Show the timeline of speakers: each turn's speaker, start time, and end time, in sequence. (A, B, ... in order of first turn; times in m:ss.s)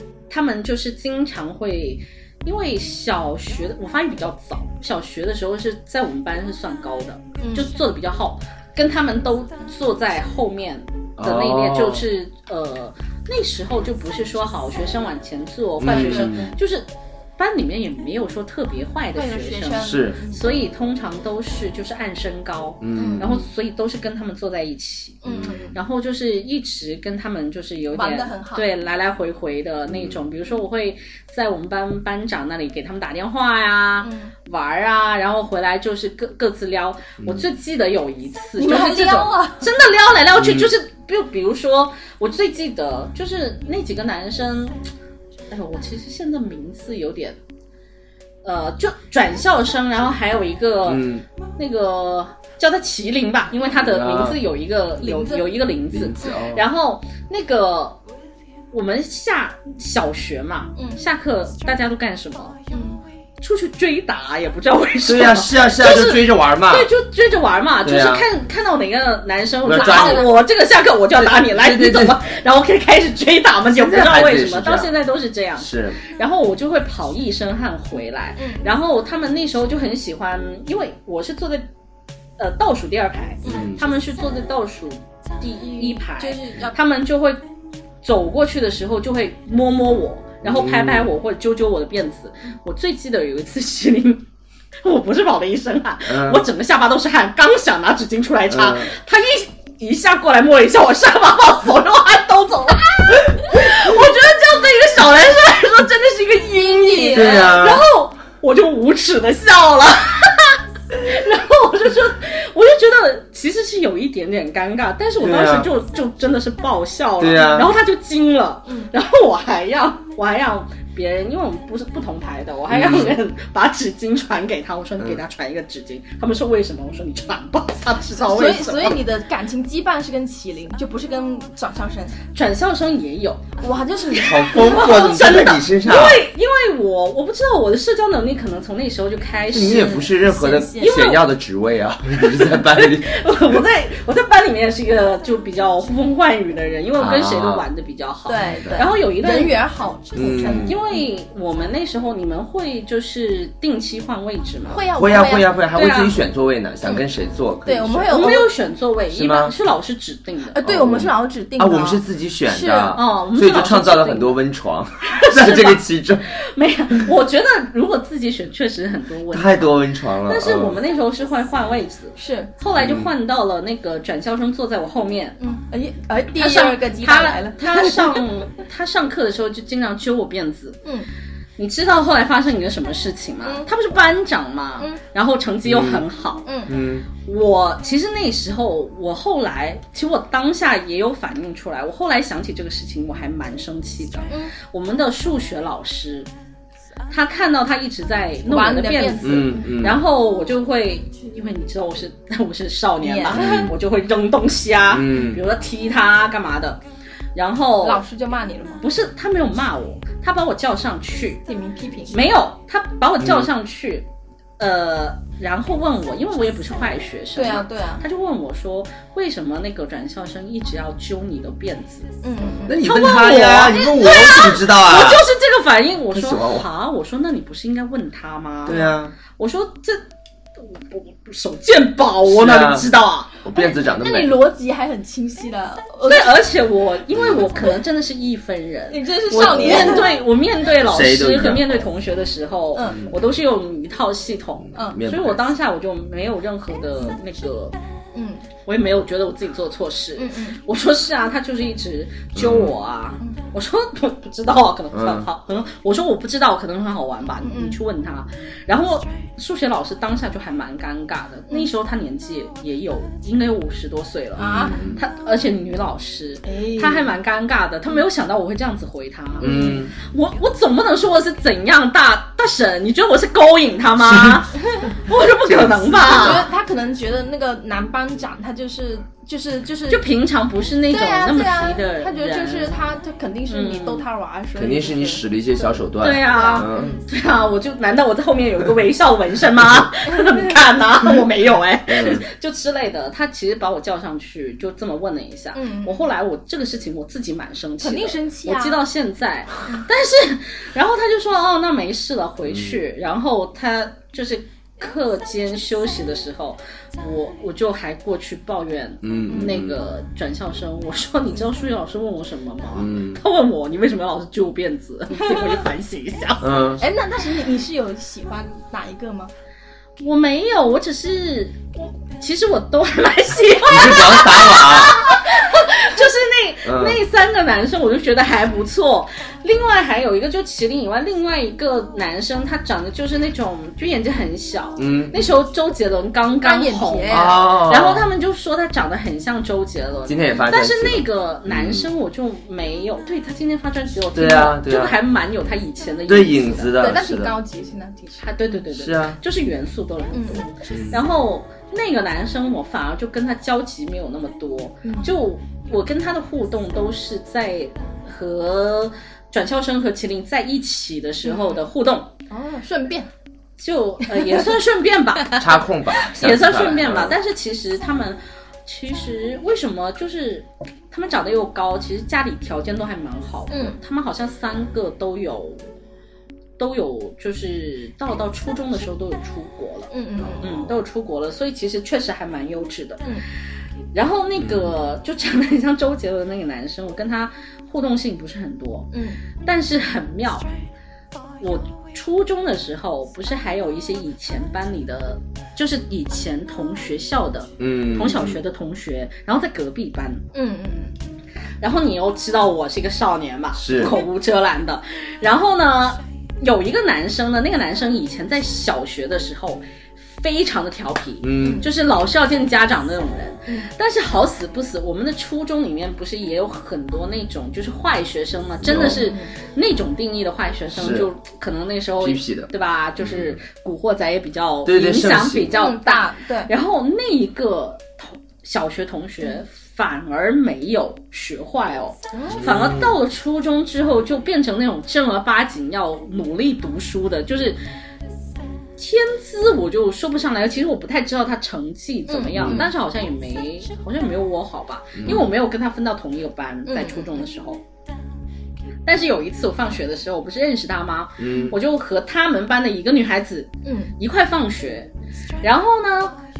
0:00.3-0:44.8 A
0:07.4-0:07.7 B
0:11.2-0:12.0 C
0:15.8-0:16.5 C
0:15.9-0:16.5 B
0:19.1-0:20.5 B
0:19.8-0:20.2 C
0:22.8-0:23.4 C
0:23.0-0:23.2 B
0:25.2-0:25.7 B
0:25.3-0:25.6 C
0:27.9-0:28.6 B
0:29.9-0:30.2 C
0:34.0-0:34.3 B
0:38.6-0:39.7 B
0:40.4-0:40.7 C
0:45.5-0:47.4 A
0:48.4-0:58.0 A
0:50.9-0:51.2 C
0:53.8-0:54.4 C
0:55.0-0:55.5 B
0:55.9-0:56.6 C
0:58.7-1:02.6 A
1:00.8-1:01.0 B
1:02.7-1:03.0 B
1:03.4-1:21.7 A
1:05.0-1:06.9 C
1:07.8-1:08.2 C
1:09.6-1:10.3 C
1:09.8-1:10.4 B
1:11.2-1:12.2 C
1:13.7-1:14.9 C
1:15.6-1:16.0 C
1:18.4-1:18.6 B
1:22.4-1:27.4 A
1:23.4-1:23.8 C
1:25.5-1:26.8 B
1:28.0-1:34.2 A
1:30.4-1:31.1 C
1:34.8-2:09.0 A
1:36.1-1:36.4 C
1:38.5-1:38.9 C
1:46.6-1:47.5 B
1:47.1-1:47.8 C
1:55.2-1:55.7 C
1:57.2-1:57.7 C
2:02.7-2:03.2 C
2:08.2-2:12.2 B
2:12.3-2:13.5 A
2:13.6-2:15.0 B
2:14.1-2:16.2 C
2:14.5-2:20.1 A
2:19.5-2:23.2 C
2:20.0-2:21.0 B
2:20.8-2:21.2 A
2:22.2-2:29.6 A
2:27.0-2:27.7 C
2:28.2-2:31.1 B
2:28.5-2:28.8 C
2:30.1-2:30.7 C
2:30.6-2:34.9 A
2:34.7-2:35.5 B
2:35.0-2:38.3 C
2:35.7-2:36.2 A
2:37.6-2:38.5 B
2:38.1-2:40.6 A
2:39.1-2:39.5 C
2:40.5-2:43.0 B
2:40.6-2:46.2 C
2:42.9-2:44.4 A
2:45.1-2:45.8 A
2:46.3-2:55.4 A
2:49.3-2:50.8 C
2:52.2-2:52.5 B
2:52.8-2:53.1 C
2:55.4-2:58.3 B
2:56.4-3:00.8 A
3:01.6-3:06.5 A
3:03.4-3:03.7 B
3:05.6-3:06.0 C
3:06.4-3:06.7 B
3:06.7-3:07.1 C
3:07.2-3:16.3 A
3:17.1-3:26.8 A
3:18.5-3:19.7 B
3:19.2-3:20.0 C
3:23.0-3:23.7 B
3:23.3-3:23.7 C
3:24.9-3:25.4 C
3:27.3-3:28.0 A
3:27.8-3:28.8 B
3:28.8-3:31.4 A
3:31.5-3:32.2 B
3:32.1-3:34.1 A
3:33.2-3:33.5 C
3:34.6-3:42.1 A
3:37.3-3:38.0 B
3:42.2-3:42.8 B
3:42.7-3:45.2 C
3:42.8-3:48.8 A
3:46.1-3:46.7 C
3:48.6-3:49.1 C
3:48.7-3:49.0 B
3:49.4-3:50.0 A
3:50.6-3:53.3 A
3:52.3-3:52.9 C
3:53.4-3:54.4 C
3:53.5-3:56.5 B
3:56.0-4:07.7 A
3:57.2-3:57.4 C
3:58.9-4:00.2 B
3:59.3-4:00.1 C
4:00.8-4:01.8 C
4:02.7-4:03.0 B
4:04.7-4:05.4 C
4:04.7-4:05.0 B
4:08.1-4:08.4 B
4:08.6-4:36.4 A
4:10.2-4:10.6 B
4:12.3-4:12.7 C
4:14.9-4:15.3 C
4:17.4-4:17.8 B
4:24.4-4:24.8 B
4:24.6-4:25.0 C
4:26.4-4:27.2 B
4:29.4-4:29.8 B
4:29.4-4:29.9 C
4:34.0-4:34.4 C
4:35.1-4:36.4 C
4:36.0-4:40.1 B
4:39.9-4:42.8 A
4:40.9-4:45.2 B
4:43.5-4:44.0 A
4:44.5-4:47.0 C
4:46.0-5:16.7 A
4:46.3-4:47.0 B
4:50.1-4:50.5 B
4:51.9-4:52.2 C
4:55.5-4:56.0 B
4:57.8-4:58.8 B
5:09.0-5:09.8 C
5:09.3-5:09.6 B
5:12.7-5:13.2 C
5:15.1-5:15.6 B
5:16.4-5:16.8 C
5:16.8-5:19.3 B
5:20.0-5:46.8 A
5:23.7-5:25.0 C
5:26.6-5:27.0 C
5:34.8-5:35.1 C
5:36.4-5:37.4 B
5:37.1-5:38.1 C
5:40.0-5:41.9 C
5:44.1-5:45.0 C
5:46.1-5:47.4 C
5:46.8-5:48.5 B
5:48.2-6:02.1 A
5:48.7-5:49.2 C
5:50.1-5:50.4 B
5:50.7-5:51.0 C
5:54.8-5:55.1 B
6:01.2-6:01.6 B
6:02.3-6:03.1 B
6:03.6-6:15.6 A
6:05.4-6:07.1 C
6:13.5-6:13.7 B
6:16.6-6:23.0 A
6:19.9-6:20.5 B
6:20.4-6:20.7 C
6:23.9-6:28.9 A
6:24.4-6:24.7 C
6:28.9-6:29.2 B
6:29.4-6:30.5 A
6:31.4-6:40.2 A
6:37.6-6:38.4 C
6:40.3-6:40.9 B
6:41.6-7:17.6 A
6:43.6-6:44.0 C
6:51.2-6:51.6 C
6:51.4-6:51.7 B
6:58.6-6:59.0 C
6:58.7-6:59.3 B
7:00.7-7:01.1 C
7:02.0-7:03.4 C
7:04.6-7:05.5 C
7:05.5-7:06.5 B
7:12.1-7:12.4 B
7:12.3-7:13.0 C
7:18.8-7:27.6 A
7:22.1-7:22.7 B
7:22.4-7:22.7 C
7:25.0-7:25.2 C
7:26.7-7:27.2 B
7:28.8-7:34.9 A
7:31.2-7:31.6 C
7:33.6-7:34.0 B
7:35.4-7:36.2 A